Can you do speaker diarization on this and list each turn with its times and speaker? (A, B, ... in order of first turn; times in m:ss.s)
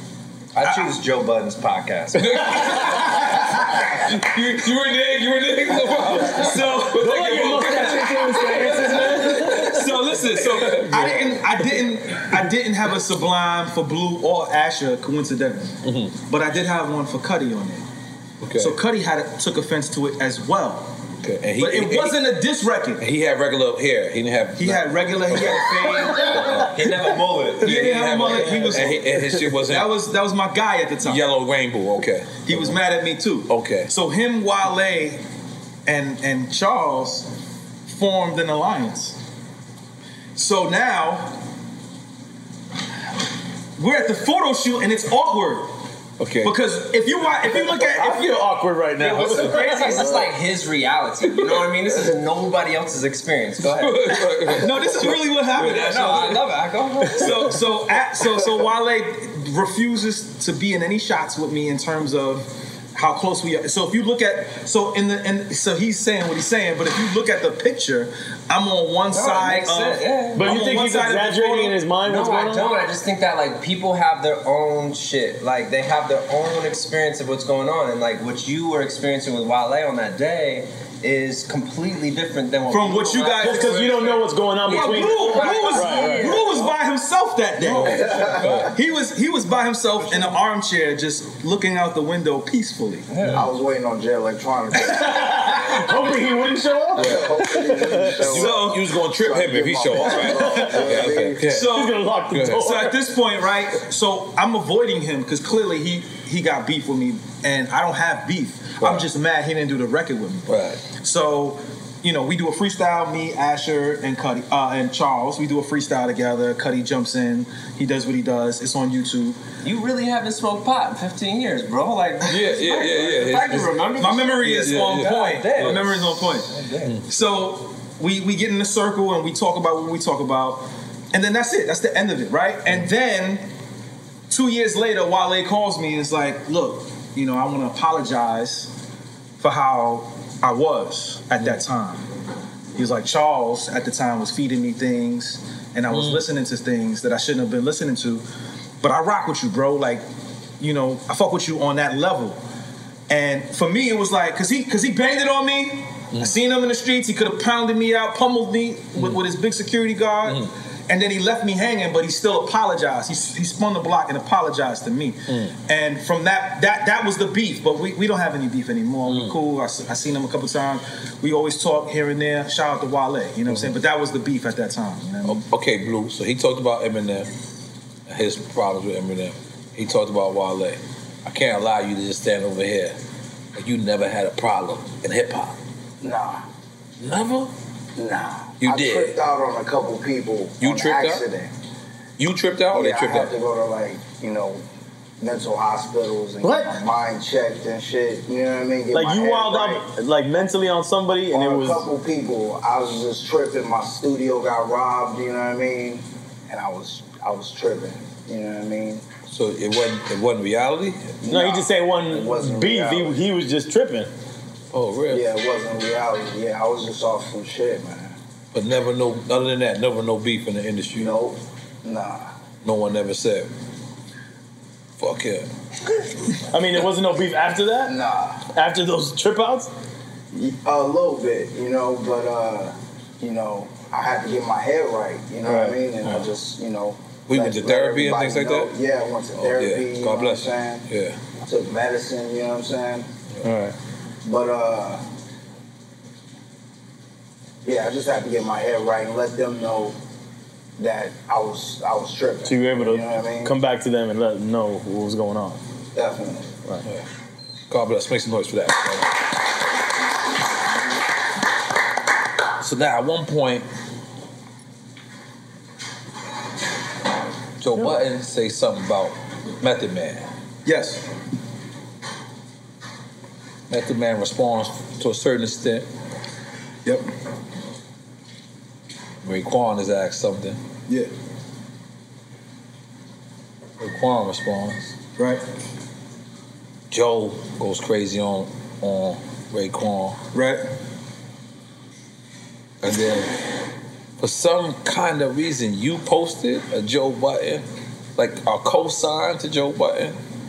0:00.6-0:03.0 A
0:02.2-0:11.6 B
0:06.2-0:15.7 C
0:06.9-0:09.8 D
0:15.8-0:16.2 B
0:16.3-0:17.8 C
0:18.4-0:18.8 B
0:18.6-0:20.9 C
0:21.2-0:22.2 B
0:21.6-0:23.0 C
0:23.0-0:26.9 B
0:24.6-0:26.6 C
0:26.7-0:27.8 A
0:27.6-0:29.9 B
0:27.6-0:31.2 C
0:28.3-0:28.8 D
0:31.0-0:32.8 B
0:32.5-0:35.2 C
0:33.5-0:33.9 B
0:35.9-0:37.3 C
0:37.9-0:39.2 C
0:40.4-0:41.4 C
0:43.8-0:45.7 C
0:46.2-0:46.6 B
0:46.4-0:48.4 C
0:47.7-0:50.1 D
0:49.0-0:54.2 A
0:53.6-0:56.4 B
0:54.6-0:56.4 C
0:55.6-0:57.4 A
0:57.2-1:11.8 C
1:09.1-1:10.5 A
1:10.4-1:12.8 D
1:12.0-1:26.8 A
1:22.7-1:24.0 C
1:23.4-1:26.5 D
1:24.7-1:33.1 C
1:27.6-1:28.7 B
1:27.9-1:28.7 E
1:33.1-1:33.4 A
1:33.3-1:35.8 E
1:35.0-1:38.3 D
1:37.0-1:41.4 E
1:37.0-1:41.8 B
1:38.2-1:38.8 C
1:40.1-1:40.8 D
1:41.4-1:59.4 C
1:41.6-1:43.0 D
1:42.3-1:42.7 B
1:48.8-1:49.0 B
1:50.5-1:50.8 B
1:59.6-2:07.0 A
2:02.3-2:03.7 B
2:04.0-2:06.5 C
2:04.4-2:06.0 B
2:07.1-2:13.4 C
2:14.3-2:18.7 C
2:19.4-2:22.1 C
2:22.8-2:28.2 C
2:25.9-2:26.2 B
2:28.8-2:30.0 C
2:30.6-2:32.4 C
2:33.1-2:55.4 C
2:39.0-2:39.2 B
2:40.3-2:40.5 B
2:49.1-2:49.4 B
2:53.5-2:53.7 B
2:55.2-2:57.3 B
2:58.1-3:03.0 B
3:03.6-3:05.6 B
3:06.0-3:06.4 E
3:07.0-3:07.5 B
3:08.0-3:11.5 E
3:08.6-3:09.2 B
3:10.6-3:11.2 B
3:12.2-3:13.3 B
3:12.7-3:14.6 E
3:15.2-3:19.9 E
3:16.4-3:16.8 D
3:18.9-3:21.9 D
3:21.3-3:29.0 E
3:29.3-3:31.1 B
3:31.2-3:33.2 E
3:31.3-3:34.1 D
3:34.7-3:35.2 B
3:35.1-3:38.2 E
3:38.5-3:41.1 B
3:40.9-3:42.3 E
3:42.6-3:43.5 B
3:45.0-3:45.5 B
3:46.5-3:47.9 D
3:47.8-3:48.4 E
3:48.5-3:49.7 D
3:50.3-4:00.9 E
3:55.4-3:55.8 D
3:57.3-3:58.7 B
3:59.4-4:01.2 B
4:01.4-4:03.1 E
4:03.4-4:03.8 D
4:04.2-4:05.0 E
4:07.6-4:10.0 E
4:10.8-4:13.5 E
4:12.4-4:15.6 D
4:15.9-4:16.5 E
4:17.7-4:19.1 B
4:22.6-4:23.7 B
4:27.6-4:30.3 B
4:30.6-4:31.1 C
4:33.7-4:35.9 B
4:39.2-4:40.6 B
4:43.8-4:44.9 B
4:45.2-4:45.4 C
4:46.9-4:50.2 B
4:50.3-4:50.6 C
4:52.8-4:53.4 B
4:54.2-4:57.6 B
4:58.2-5:00.2 B